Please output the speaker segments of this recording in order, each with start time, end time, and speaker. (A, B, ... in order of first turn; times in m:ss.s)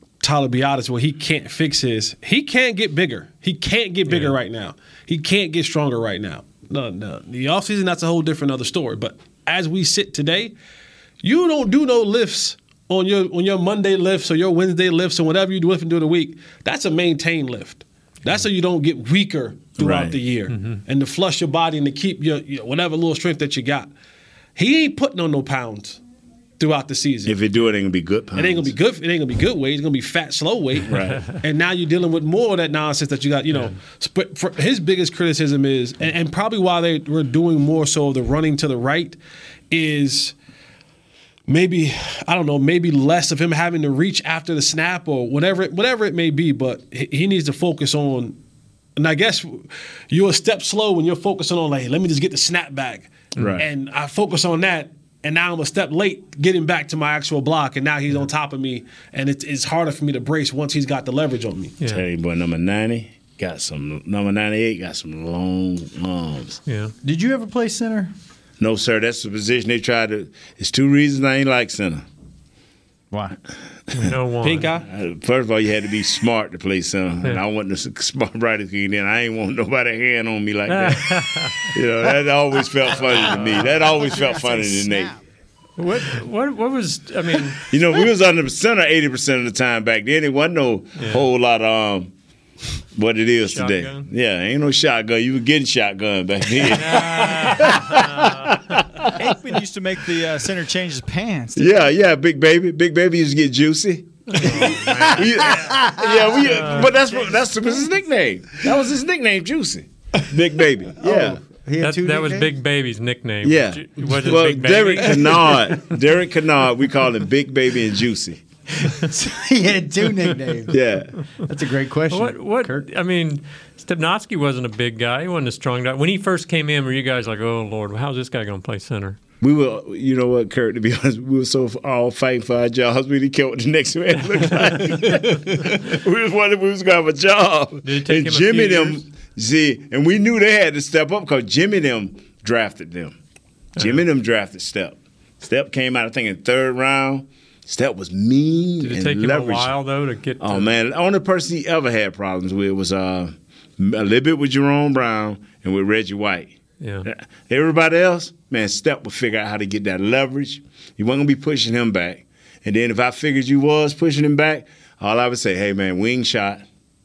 0:00.2-0:10.6 A
0:04.1-0:04.4 B
0:11.2-0:23.9 A
0:19.8-0:20.2 C
0:20.5-0:20.8 B
0:24.6-0:26.0 A
0:26.6-0:27.4 A
0:27.3-0:28.7 C
0:28.4-0:39.2 A
0:30.8-0:31.3 C
0:39.7-0:40.3 A
0:41.5-0:48.4 A
0:49.0-1:01.8 A
0:53.4-0:53.6 C
1:01.8-1:06.6 C
1:06.7-1:06.9 B
1:07.0-1:08.1 D
1:08.6-1:12.0 C
1:13.1-1:13.4 D
1:13.9-1:14.8 B
1:14.4-1:14.8 A
1:14.8-1:25.2 C
1:20.7-1:21.7 B
1:24.6-1:24.8 E
1:25.8-1:27.7 B
1:27.7-1:32.1 C
1:31.0-1:31.3 B
1:33.0-1:39.6 C
1:33.4-1:34.1 B
1:36.6-1:38.4 B
1:39.2-1:41.8 E
1:41.6-1:51.4 C
1:44.3-1:45.6 B
1:45.7-1:46.4 D
1:46.4-1:46.9 B
1:51.0-1:52.6 D
1:51.8-1:55.8 B
1:53.4-1:58.4 C
1:55.0-1:55.6 A
1:58.9-2:00.8 D
2:00.7-2:01.2 C
2:01.4-2:02.9 D
2:02.1-2:09.2 B
2:09.4-2:23.2 C
2:17.8-2:19.0 B
2:23.8-2:24.0 B
2:23.8-2:29.8 C
2:28.8-2:30.8 B
2:30.4-2:46.6 C
2:36.8-2:37.1 B